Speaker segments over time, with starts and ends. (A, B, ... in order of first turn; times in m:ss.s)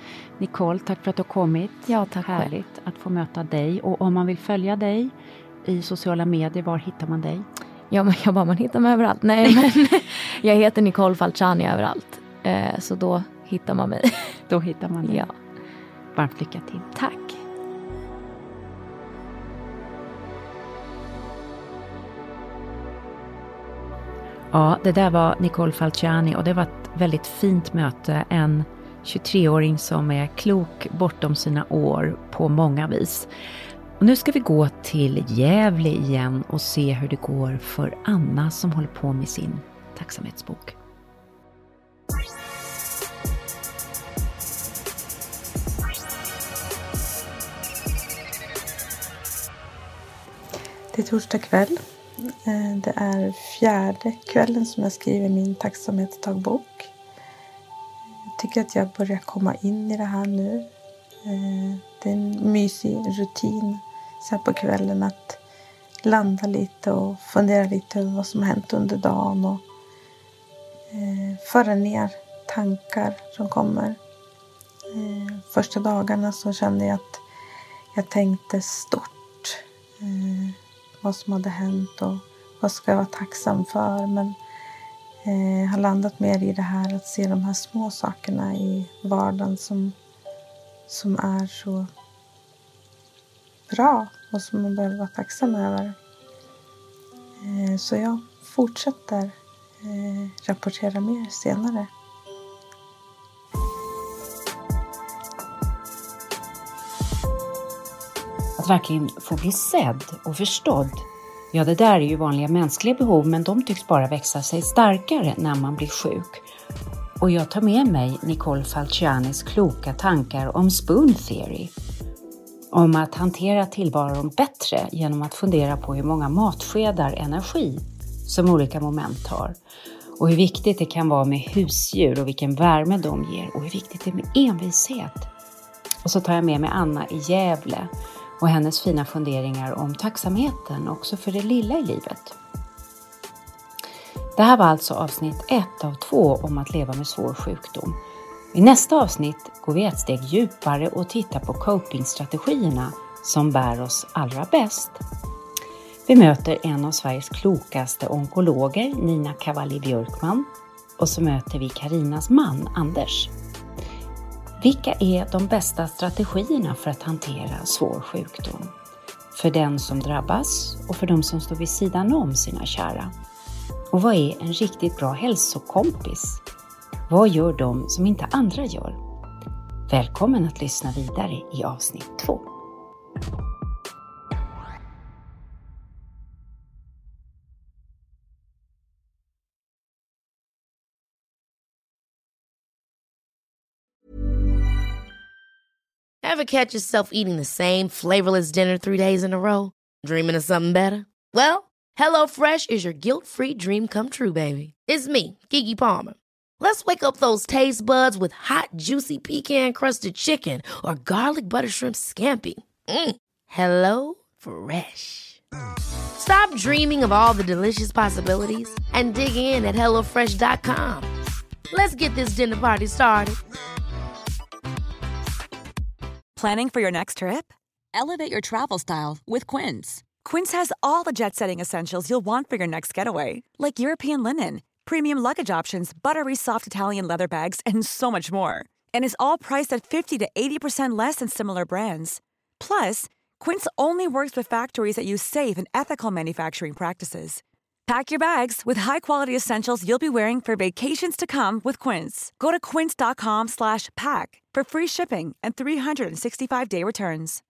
0:00.4-0:07.5 A
0:01.9-0:02.5 B
0:07.9-0:14.4 B
0:14.5-0:15.3 A
0:15.0-0:15.3 B
0:16.2-0:16.9 A
0:17.0-0:17.4 B
0:24.5-0:33.3 A
0:34.0-0:40.8 A
0:50.9-0:51.8 C
0:52.3-0:56.9 C
0:58.4-1:00.7 C
1:01.2-1:05.4 C
1:06.0-1:09.6 C
1:10.9-1:14.0 C
1:14.9-1:17.2 C
1:17.9-1:24.4 C
1:25.2-1:30.0 C
1:30.9-1:31.9 C
1:33.7-1:36.0 C
1:37.4-1:41.9 C
1:48.6-1:56.5 A
1:57.2-2:01.7 A
2:02.7-2:09.6 A
2:10.2-2:15.3 A
2:16.0-2:22.4 A
2:24.4-2:28.0 A
2:28.5-2:35.0 A
2:36.1-2:43.3 A
2:44.6-2:48.8 A
2:49.3-2:53.1 A
2:53.9-2:56.4 A
2:57.1-2:59.0 A
2:59.9-3:02.5 A
3:16.2-3:35.4 D
3:36.2-3:41.1 D
3:41.7-3:43.4 D
3:46.4-4:17.4 E